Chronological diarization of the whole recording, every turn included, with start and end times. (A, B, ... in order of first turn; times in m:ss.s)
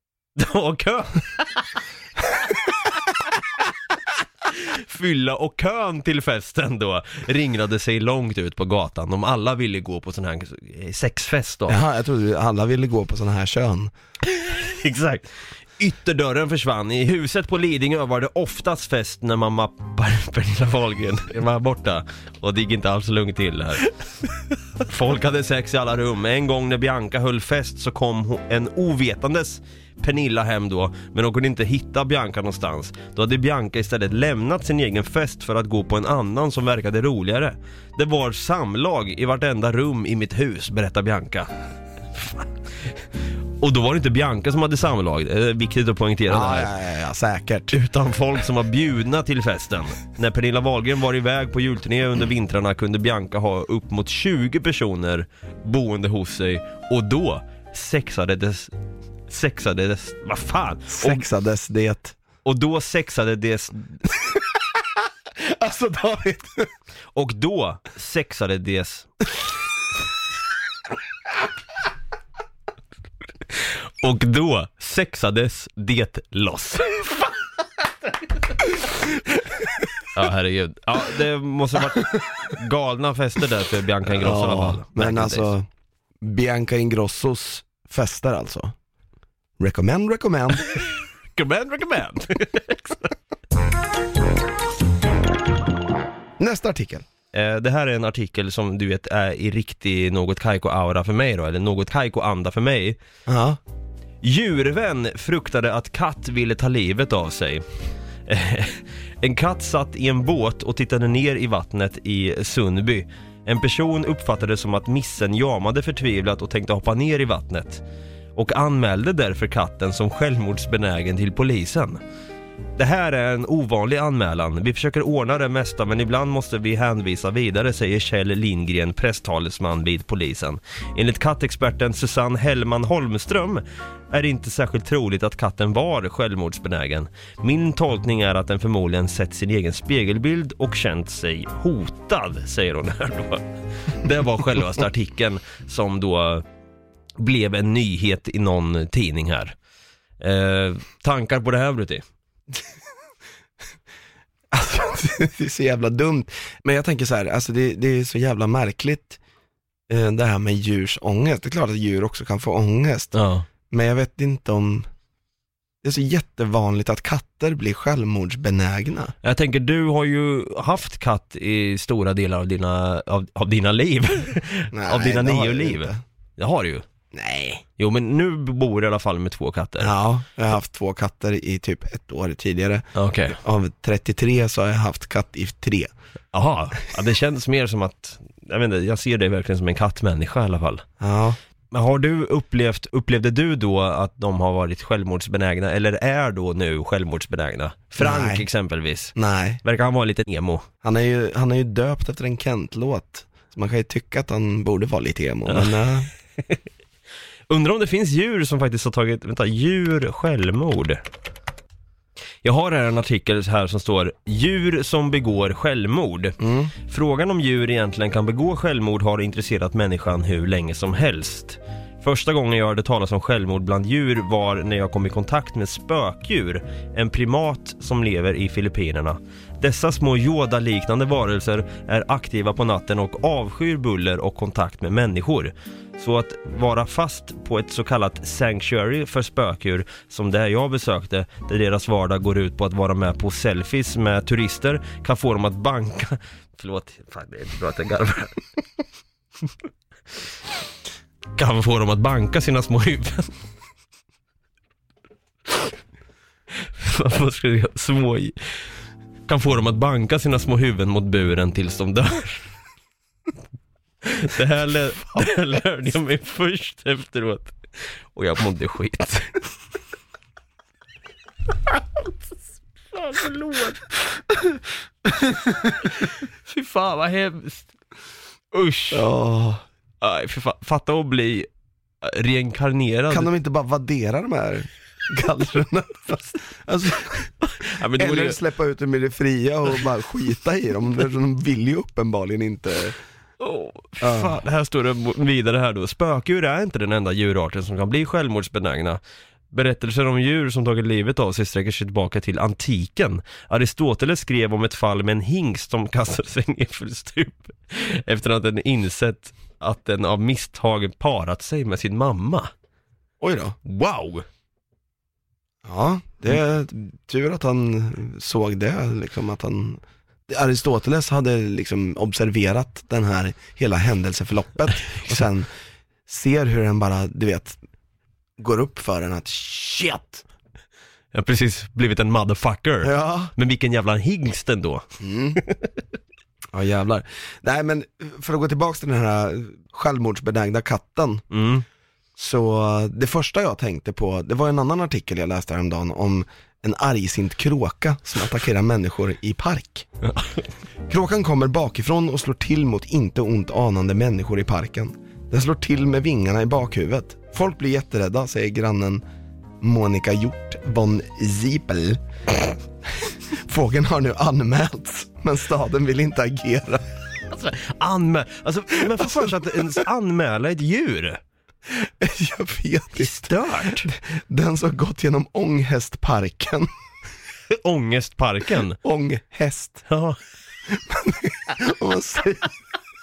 0:00.4-0:01.6 A
0:04.5-0:11.8 A
0:11.7-0:13.9 B
0:14.4-0:23.9 A
0:24.8-0:41.5 A
0:42.1-0:42.9 A
0:43.6-0:46.7 A
0:46.3-0:47.8 B
0:47.7-0:58.7 A
0:59.3-1:01.2 A
1:00.9-1:02.2 B
1:02.4-1:04.0 A
1:05.4-1:06.7 B
1:07.2-1:09.1 A
1:13.6-1:17.3 A
1:20.1-1:25.5 A
1:24.2-1:25.7 B
1:26.2-1:28.7 B
1:29.6-1:30.9 B
1:31.4-1:33.1 A
1:36.4-1:37.1 B
1:37.3-1:43.0 A
1:43.3-1:43.6 B
1:44.2-1:47.6 A
1:48.3-1:57.8 A
1:58.4-2:02.0 A
2:02.8-2:26.4 A
2:27.2-2:29.6 A
2:30.2-2:32.0 A
2:34.5-2:39.2 B
2:39.9-2:43.1 B
2:43.1-2:43.4 A
2:43.7-2:44.9 B
2:45.8-2:49.1 B
2:49.2-2:56.8 A
2:54.7-2:56.0 B
2:57.1-2:57.6 B
2:57.8-2:59.9 A
2:59.8-3:05.9 B
3:03.0-3:03.4 A
3:06.3-3:10.8 A
3:11.0-3:11.4 B
3:11.7-3:20.7 A
3:18.0-3:18.5 B
3:19.2-3:19.6 B
3:20.8-3:26.1 B
3:25.5-3:25.8 A
3:27.5-3:31.0 A
3:32.4-4:08.4 A
3:36.4-3:36.7 B
4:11.4-4:13.3 A
4:16.6-4:18.4 A
4:19.3-4:22.5 A
4:24.0-4:27.6 A
4:28.2-4:29.5 A
4:31.7-4:32.2 A
4:32.9-4:34.0 A
4:35.5-4:37.7 A
4:38.5-4:39.1 A
4:38.9-4:39.6 B
4:40.0-4:41.5 A
4:42.0-4:43.3 A
4:43.1-4:47.3 B
4:47.4-4:48.4 A
4:47.9-4:53.0 B
4:53.4-4:59.0 A
4:54.0-4:54.4 B
4:59.5-5:12.5 A
5:13.2-5:13.6 B
5:13.7-5:14.3 A
5:15.6-5:25.5 B
5:26.1-5:27.6 B
5:28.4-5:30.2 B
5:31.1-5:35.6 A
5:32.8-5:33.3 B
5:35.0-5:35.4 B
5:36.5-5:41.2 B
5:41.3-5:41.6 A
5:42.2-5:49.9 B
5:50.0-5:50.5 A
5:50.9-5:59.0 B
5:59.6-6:06.8 B
6:07.3-6:11.2 A
6:08.8-6:09.8 B
6:11.7-6:16.7 B
6:13.0-6:13.9 A
6:17.5-6:18.8 A
6:18.8-6:19.8 B
6:19.9-6:20.2 A
6:20.7-6:22.5 B